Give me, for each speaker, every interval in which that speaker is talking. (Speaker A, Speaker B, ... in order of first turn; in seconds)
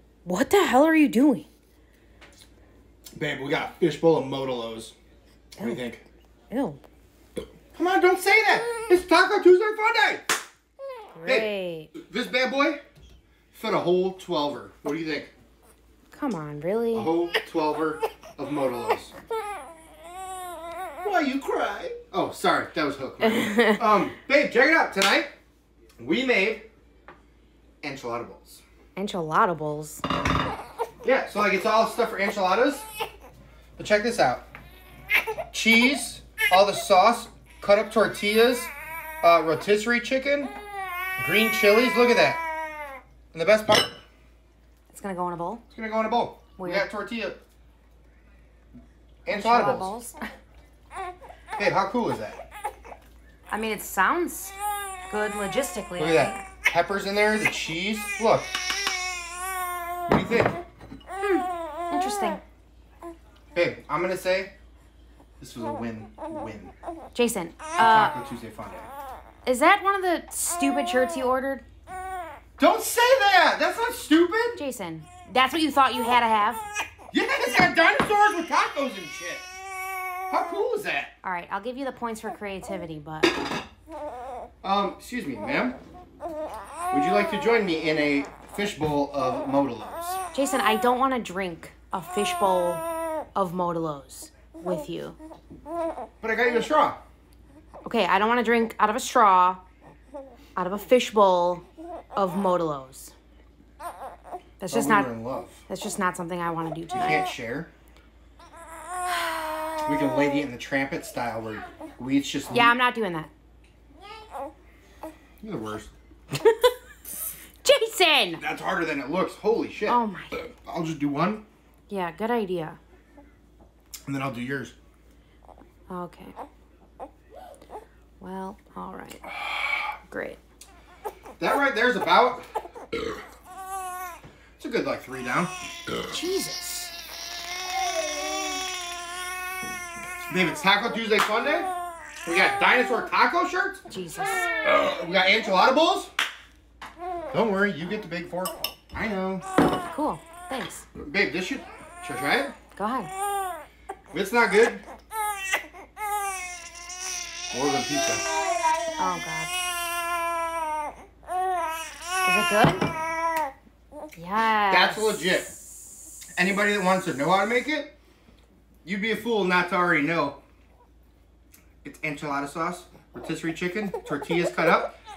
Speaker A: 0.2-1.5, 6.5-6.8, 11.2-11.9, 16.1-17.1, 23.2-23.8, 29.0-30.0, 44.9-45.6, 46.6-46.9, 49.3-50.2, 53.5-54.6, 55.1-56.4, 61.2-62.4, 67.2-68.2, 69.5-71.7, 74.6-76.6, 81.2-83.5, 90.3-92.8, 93.3-95.2, 97.8-99.6, 100.6-101.7, 102.2-103.1, 104.6-105.1, 105.7-107.3, 112.5-113.3, 116.3-116.7, 117.6-118.4, 119.9-120.5, 121.9-122.8, 125.9-126.3, 128.2-129.3, 130.1-130.4, 136.1-136.9, 143.9-144.5, 149.9-150.9, 152.8-153.1, 159.0-159.5, 162.2-162.9, 164.2-165.3
Speaker B: 3.1-5.0, 5.6-6.0, 7.8-10.2, 11.3-12.8, 13.5-15.3, 16.9-19.1, 21.0-25.3, 26.0-26.6, 27.8-28.6, 31.0-32.9, 33.8-34.5, 35.5-40.5, 41.2-42.4, 43.3-44.0, 45.7-47.4, 49.2-49.9, 51.6-52.4, 56.0-58.5, 60.1-60.6, 63.5-64.5, 65.4-66.7, 67.8-68.9, 72.6-74.6, 77.1-79.5, 80.3-81.1, 84.6-85.8, 86.9-90.2, 96.2-97.0, 104.7-105.6, 106.9-107.7, 109.8-112.8, 115.4-115.9, 118.4-120.0, 120.6-121.4, 124.1-124.8, 131.4-132.4, 134.6-135.5, 140.3-141.7, 142.2-143.8, 144.6-146.1, 147.3-149.4, 151.0-152.6, 154.1-154.8, 157.5-158.2, 164.7-165.5, 166.4-167.9, 168.8-170.4, 171.8-174.9